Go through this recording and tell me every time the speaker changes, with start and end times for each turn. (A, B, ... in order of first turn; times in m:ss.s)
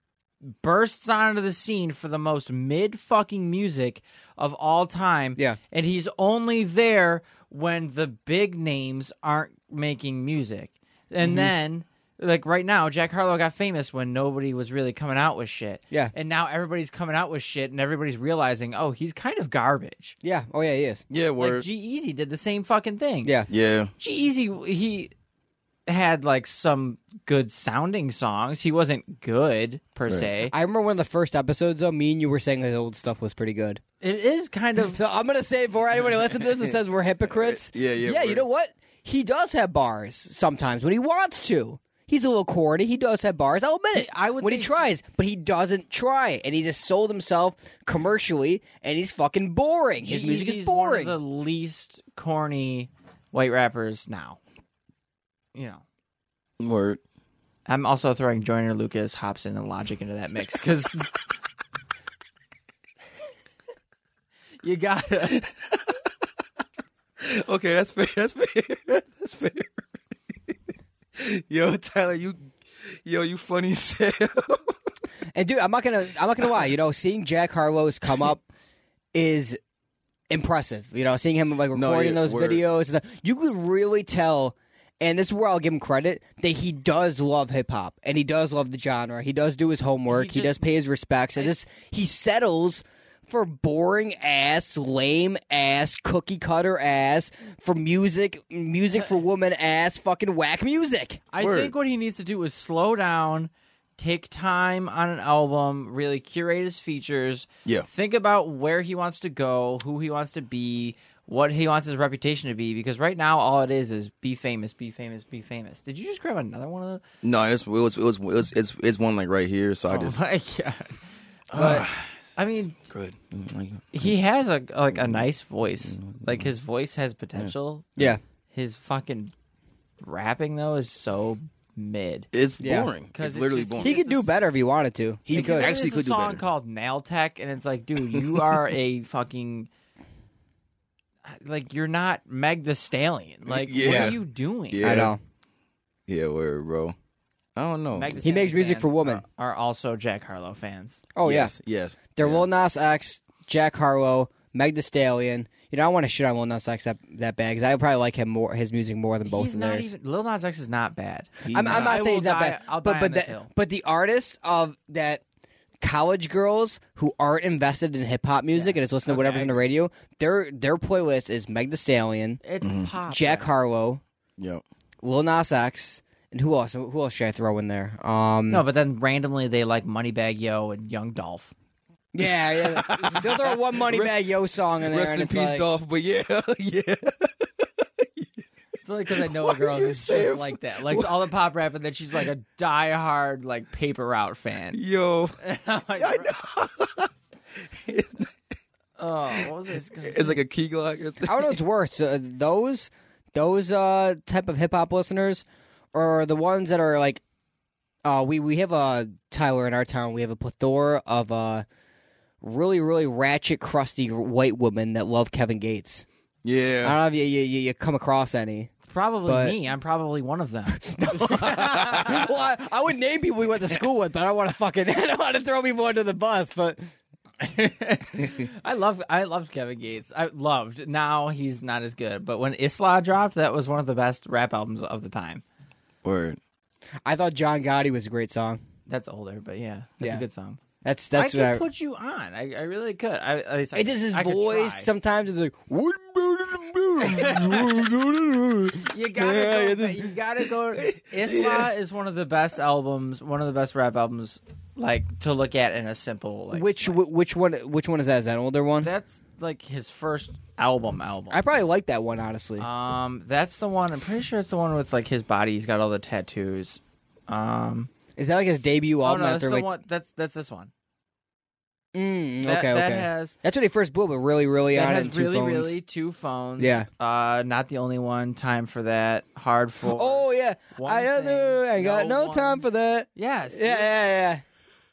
0:00.4-0:20.2 A
0:11.2-0:11.5 B
0:20.2-0:21.0 B
0:21.1-0:21.6 C
0:21.4-0:23.3 A
0:23.2-0:23.5 B
0:23.5-0:23.9 C
0:24.0-0:25.1 A
0:25.9-0:30.5 A
0:30.5-0:33.8 B
0:34.0-0:35.0 A
0:34.9-0:51.2 B
0:37.3-0:38.4 C
0:43.9-0:44.9 A
0:50.0-0:54.4 A
0:55.5-0:55.8 A
0:56.6-0:57.0 C
0:57.7-1:01.1 A
1:04.6-1:05.4 A
1:05.3-1:05.9 C
1:07.2-1:09.8 C
1:11.2-1:14.7 C
1:15.3-1:18.4 B
1:19.1-1:19.6 B
1:20.3-1:41.2 B
1:21.7-1:22.6 C
1:30.1-1:30.6 A
1:41.3-1:57.0 A
1:41.4-1:41.7 C
1:57.2-2:00.2 C
1:59.9-2:01.0 A
2:01.5-2:02.1 C
2:01.5-2:02.8 A
2:02.6-2:04.1 C
2:03.9-2:07.9 A
2:04.9-2:05.2 C
2:05.9-2:06.5 C
2:07.4-2:08.2 C
2:08.5-2:09.3 A
2:10.0-2:12.3 A
2:12.3-2:13.9 C
2:12.6-2:12.9 B
2:13.1-2:14.3 A
2:13.8-2:15.7 B
2:15.2-2:16.4 C
2:15.3-2:19.7 A
2:18.1-2:18.6 C
2:21.2-2:24.9 A
2:23.5-2:24.2 C
2:23.8-2:24.2 B
2:24.7-2:25.1 C
2:24.8-2:25.2 B
2:26.1-2:26.9 C
2:27.6-2:28.2 C
2:27.9-2:31.0 A
2:28.2-2:29.2 B
2:31.1-2:31.5 B
2:31.2-2:32.4 C
2:32.1-2:39.9 B
2:39.2-2:43.5 A
2:41.4-2:42.0 C
2:41.5-2:45.2 B
2:45.8-2:52.4 B
2:48.5-2:49.6 A
2:52.4-2:53.5 A
2:52.6-2:52.9 C
2:53.1-2:54.0 B
2:54.4-2:54.6 C
2:55.0-2:58.6 B
2:58.5-3:01.5 A
3:02.1-3:05.6 B
3:02.5-3:04.2 C
3:04.8-3:08.3 C
3:08.8-3:14.8 A
3:09.1-3:11.2 C
3:14.7-3:15.4 C
3:15.4-3:16.3 A
3:16.0-3:17.1 C
3:17.7-3:18.3 C
3:19.0-3:20.4 A
3:20.0-3:21.6 C
3:21.2-3:27.2 B
3:28.0-3:31.6 B
3:32.4-3:36.0 B
3:36.4-3:37.0 C
3:36.8-3:38.7 B
3:38.8-3:42.2 A
3:39.2-3:39.6 B
3:40.7-3:46.9 B
3:41.4-3:42.2 C
3:47.4-3:55.4 A
3:56.0-3:56.4 C
3:57.0-3:58.6 B
3:58.9-4:00.6 A
4:00.8-4:01.6 B
4:01.1-4:04.9 A
4:03.7-4:10.1 B
4:07.0-4:07.8 A
4:08.8-4:16.9 A
4:10.8-4:11.7 C
4:16.5-4:18.9 B
4:18.8-4:21.4 A
4:21.3-4:22.7 B
4:22.6-4:27.9 A
4:28.2-4:29.7 B
4:29.0-4:30.7 A
4:31.9-4:35.7 B
4:32.4-4:33.3 A
4:34.7-4:43.9 A
4:36.6-4:36.9 B
4:39.8-4:44.4 B